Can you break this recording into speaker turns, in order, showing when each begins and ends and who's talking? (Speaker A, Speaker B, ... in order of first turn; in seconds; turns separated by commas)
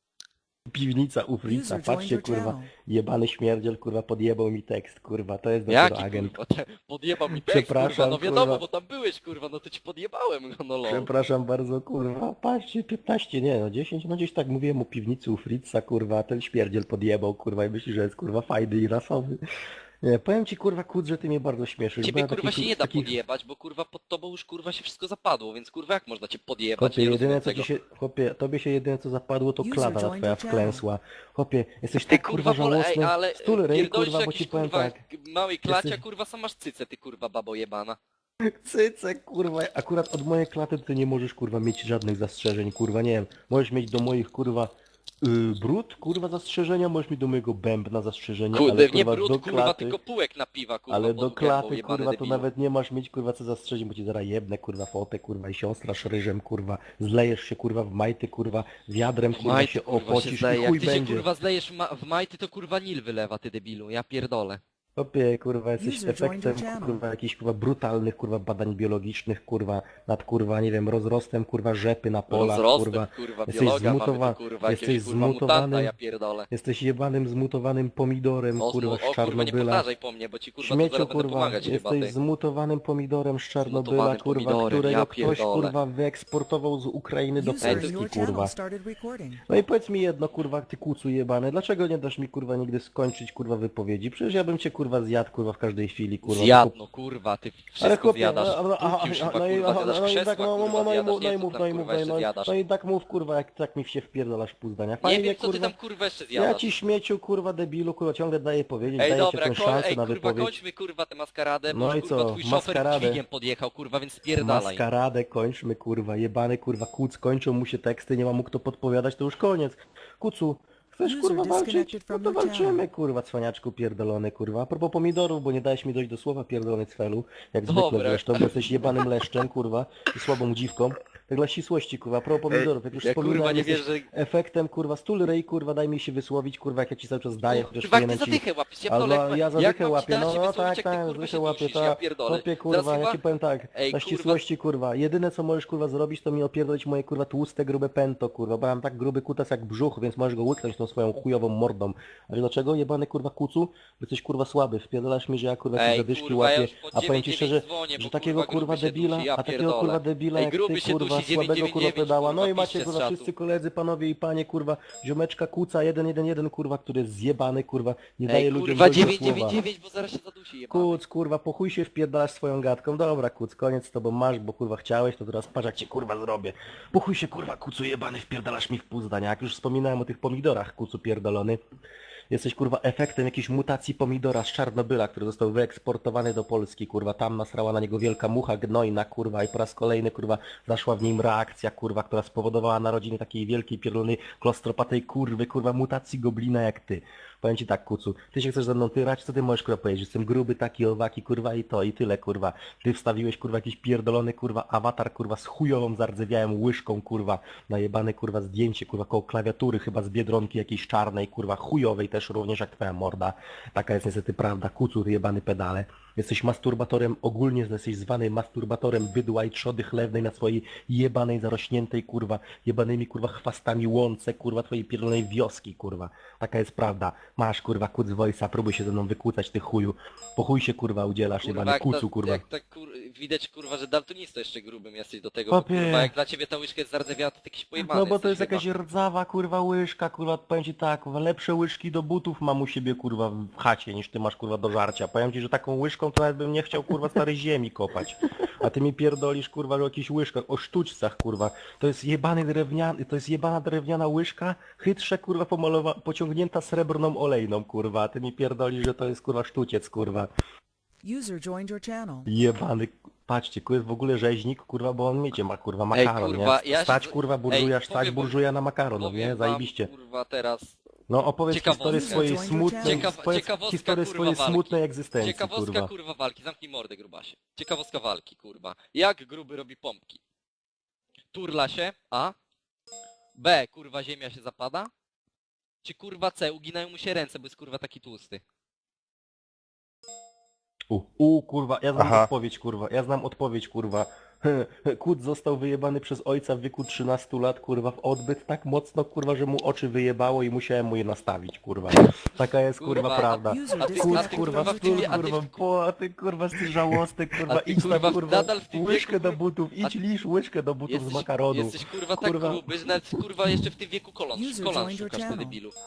Speaker A: 0.7-6.4, Speaker B: 1.4-2.7, Speaker C: 5.7-11.1, Speaker A: 7.3-8.7, Speaker A: 10.9-19.4, Speaker A: 20.0-23.2, Speaker C: 22.0-27.7, Speaker A: 26.8-35.0, Speaker B: 29.6-30.9, Speaker C: 32.1-38.0, Speaker A: 35.6-36.0, Speaker A: 38.4-50.0, Speaker C: 48.5-52.5, Speaker A: 50.9-61.3, Speaker C: 59.3-64.6, Speaker A: 65.0-75.9, Speaker B: 65.8-67.0, Speaker C: 72.3-76.5, Speaker A: 76.5-79.9, Speaker C: 78.6-82.1, Speaker A: 80.6-88.5, Speaker C: 83.6-85.7, Speaker B: 87.3-89.4, Speaker C: 87.6-88.0, Speaker A: 89.5-96.8, Speaker C: 96.2-102.5, Speaker A: 97.8-105.7, Speaker C: 105.0-106.7, Speaker A: 106.3-110.6, Speaker C: 109.0-114.8, Speaker A: 111.7-113.2, Speaker A: 114.4-169.6, Speaker B: 121.0-122.8, Speaker C: 127.7-129.1, Speaker C: 133.0-134.1, Speaker C: 137.5-143.2, Speaker C: 143.7-144.4, Speaker C: 155.8-163.3, Speaker C: 168.3-171.0, Speaker A: 170.7-181.6, Speaker A: 182.3-232.4, Speaker C: 231.4-238.6, Speaker A: 235.5-236.1, Speaker A: 237.8-260.3, Speaker B: 261.0-262.3, Speaker A: 262.3-269.9, Speaker C: 265.9-268.4, Speaker C: 269.0-270.8, Speaker A: 271.1-275.9, Speaker C: 271.5-280.2, Speaker B: 271.9-273.1, Speaker C: 281.3-282.3, Speaker C: 283.4-284.9, Speaker C: 285.8-288.4, Speaker A: 290.9-312.6, Speaker C: 302.8-305.6, Speaker B: 303.4-305.3, Speaker C: 307.5-310.0, Speaker C: 310.9-315.7, Speaker B: 314.3-315.6